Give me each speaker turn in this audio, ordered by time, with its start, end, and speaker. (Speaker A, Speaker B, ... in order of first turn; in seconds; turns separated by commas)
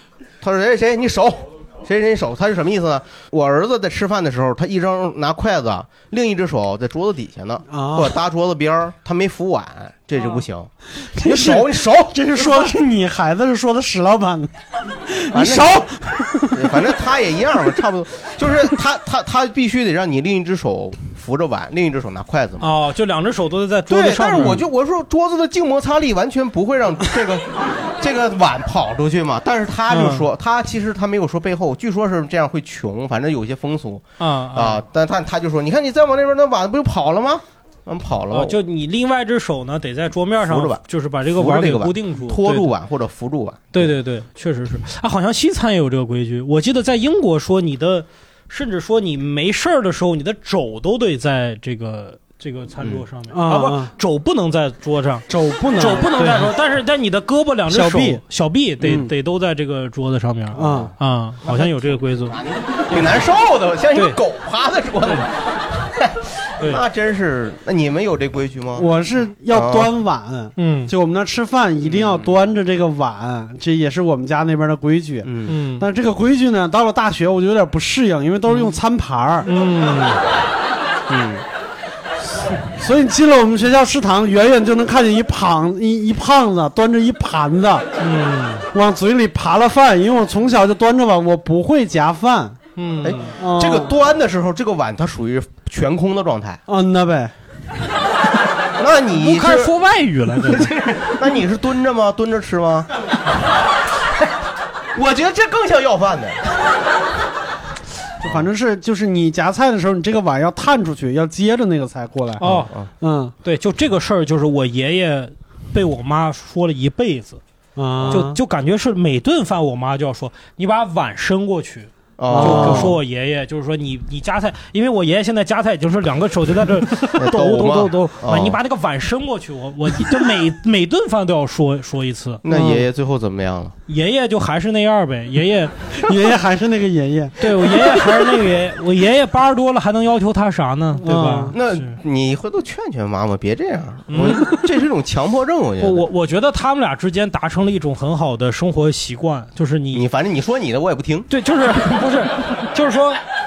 Speaker A: 0.4-12.2, Speaker B: 7.7-8.2, Speaker B: 11.0-16.8, Speaker A: 15.3-15.8, Speaker A: 16.5-22.7, Speaker C: 22.6-24.6, Speaker A: 23.9-38.6, Speaker C: 29.9-30.2, Speaker C: 34.2-34.8, Speaker C: 38.3-42.7, Speaker A: 40.4-43.9, Speaker C: 43.7-62.4, Speaker B: 53.3-53.9, Speaker B: 55.3-56.5, Speaker B: 57.7-58.2, Speaker B: 58.8-59.1, Speaker B: 60.5-60.9, Speaker A: 60.6-60.9, Speaker A: 62.3-68.9, Speaker C: 63.9-64.2, Speaker B: 68.8-79.5, Speaker A: 69.5-69.9, Speaker C: 70.6-70.9, Speaker A: 71.8-72.3, Speaker A: 75.2-75.6, Speaker C: 75.5-75.9, Speaker C: 79.4-80.2, Speaker A: 81.1-81.4, Speaker B: 82.7-87.9, Speaker C: 88.0-88.7, Speaker B: 88.7-92.6, Speaker C: 92.8-93.3, Speaker A: 93.0-96.6, Speaker B: 93.4-94.0, Speaker B: 96.7-97.3, Speaker A: 98.8-99.7, Speaker C: 99.2-100.7, Speaker A: 100.4-102.9, Speaker A: 104.9-106.4, Speaker B: 108.2-113.3, Speaker C: 112.4-112.7, Speaker A: 112.4-112.9, Speaker C: 113.4-117.4, Speaker B: 117.8-118.4, Speaker C: 118.1-132.4, Speaker A: 122.2-123.0, Speaker B: 122.3-123.0, Speaker A: 127.1-128.6, Speaker A: 132.4-133.8, Speaker B: 132.5-132.8, Speaker C: 133.9-135.7, Speaker B: 136.0-138.2, Speaker C: 137.4-141.9, Speaker B: 141.0-141.6, Speaker A: 141.5-146.1, Speaker C: 144.1-144.6, Speaker C: 145.8-150.0, Speaker A: 149.9-151.3, Speaker C: 151.3-153.2